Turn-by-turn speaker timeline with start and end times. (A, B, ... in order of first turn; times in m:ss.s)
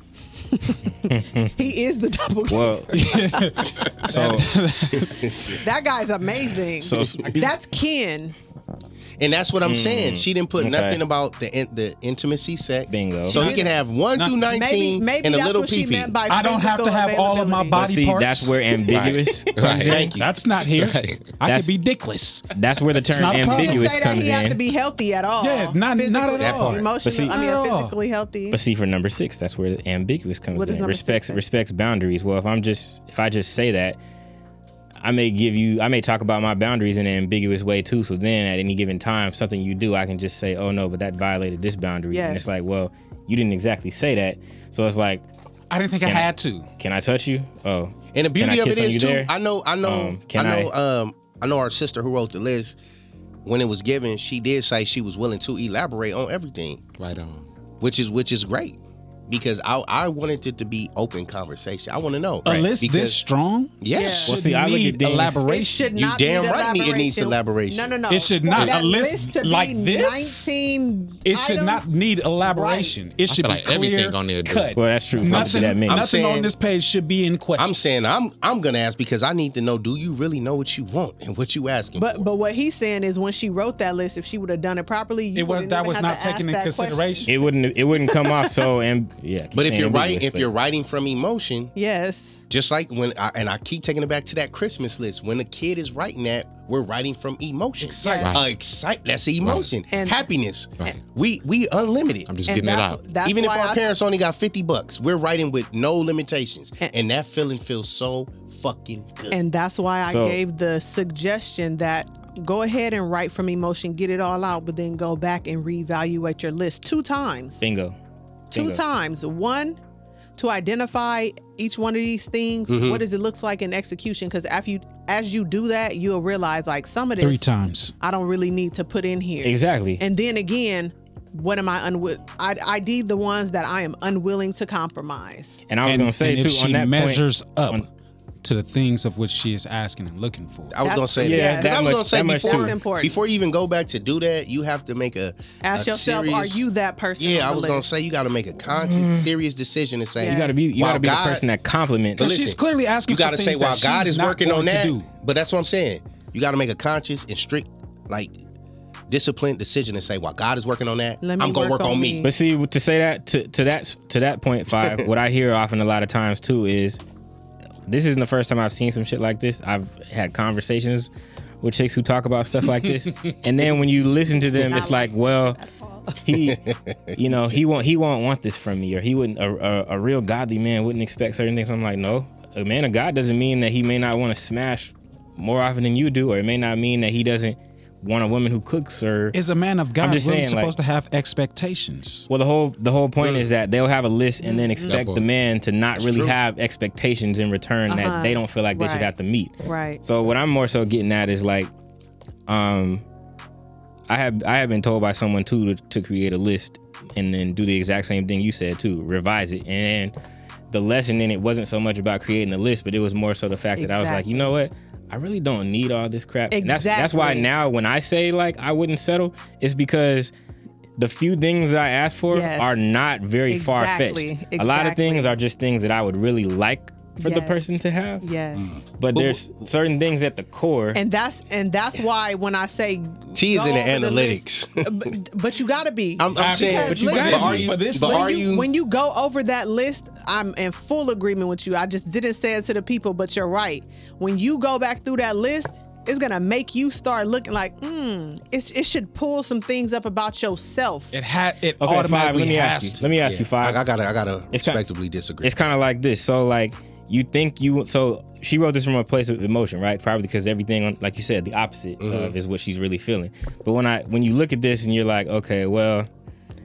0:00.5-0:04.1 A
0:01.1-0:01.5 B
0:02.5-0:03.2 B
0:02.9-0:05.6 C
0:04.0-0:04.5 B
0:05.0-0:05.6 D
0:05.6-0:08.4 A
0:06.8-0:07.5 B
0:09.2-0:16.1 D
0:09.6-0:11.0 B
0:12.9-0:13.5 B
0:13.3-0:14.4 C
0:14.5-0:17.8 A
0:16.3-0:18.6 C
0:17.7-0:20.1 B
0:18.9-0:21.3 E
0:19.6-0:22.5 C
0:19.8-0:20.3 D
0:21.4-0:21.8 B
0:22.5-0:24.6 B
0:23.1-0:24.2 C
0:23.4-0:28.6 A
0:25.4-0:28.0 C
0:26.4-0:26.9 D
0:27.0-0:27.4 B
0:28.5-0:34.0 B
0:30.5-0:31.4 A
0:35.0-0:45.3 B
0:42.1-0:42.5 A
0:45.7-0:46.7 C
0:46.0-0:49.3 B
0:48.1-0:52.8 D
0:49.8-0:50.7 B
0:53.4-0:56.8 D
0:57.0-0:57.5 E
0:57.8-1:03.2 D
1:02.5-1:05.9 C
1:03.8-1:04.3 D
1:03.9-1:04.4 A
1:04.3-1:05.4 B
1:05.5-1:11.9 A
1:06.0-1:07.9 D
1:08.1-1:10.5 C
1:11.2-1:17.7 C
1:12.5-1:13.0 A
1:13.3-1:14.8 E
1:14.8-1:16.1 B
1:15.3-1:16.5 D
1:17.6-1:22.3 D
1:22.0-1:27.3 A
1:25.3-1:27.3 C
1:27.3-1:30.5 B
1:29.6-1:31.7 D
1:31.8-1:32.4 A
1:32.5-1:42.3 D
1:37.8-1:38.3 C
1:38.0-1:38.3 A
1:39.4-1:39.7 E
1:39.9-1:40.2 A
1:42.3-1:43.1 E
1:42.5-1:43.9 A
1:43.2-1:49.4 D
1:49.3-1:57.6 A
1:50.0-1:50.4 B
1:57.6-1:58.0 B
1:58.5-1:58.8 B
1:58.5-1:59.8 A
2:00.4-2:07.4 A
2:02.7-2:03.0 D
2:07.2-2:08.0 C
2:08.0-2:15.6 A
2:09.4-2:10.0 B
2:15.7-2:17.9 B
2:15.8-2:17.9 C
2:18.4-2:20.8 C
2:20.7-2:31.4 D
2:20.8-2:23.2 A
2:21.2-2:22.8 B
2:25.6-2:27.9 A
2:28.8-2:29.3 B
2:30.2-2:30.5 A
2:30.2-2:32.4 B
2:32.2-2:35.1 C
2:32.2-2:38.3 D
2:39.1-2:42.3 D
2:41.2-2:42.3 A
2:42.2-2:47.0 B
2:47.9-2:51.1 B
2:51.6-2:55.6 B
2:54.6-2:56.3 A
2:56.2-2:56.6 B
2:56.5-2:57.5 D
2:57.1-3:09.4 B
3:09.3-3:12.3 C
3:10.0-3:10.8 B
3:12.3-3:21.7 B
3:13.2-3:13.5 E
3:14.4-3:15.0 A
3:14.8-3:15.3 E
3:15.9-3:16.4 E
3:17.9-3:19.1 A
3:19.6-3:20.0 A
3:22.5-3:23.0 B
3:24.1-3:30.1 B
3:30.7-3:40.3 B
3:33.8-3:34.5 A
3:36.5-3:37.5 A
3:41.0-3:48.3 B
3:42.3-3:42.8 A
3:43.5-3:45.4 A
3:47.2-3:47.6 A
3:48.2-3:48.7 A
3:49.0-3:51.0 B
3:49.1-3:49.7 D
3:51.0-4:11.2 A
3:53.3-3:55.2 D
3:56.2-3:58.7 D
3:56.4-3:58.5 C
3:56.7-3:57.8 B
4:11.1-4:13.2 C
4:11.8-4:13.8 B
4:13.2-4:15.6 D
4:14.5-4:14.8 B
4:15.4-4:26.1 B
4:22.0-4:22.4 D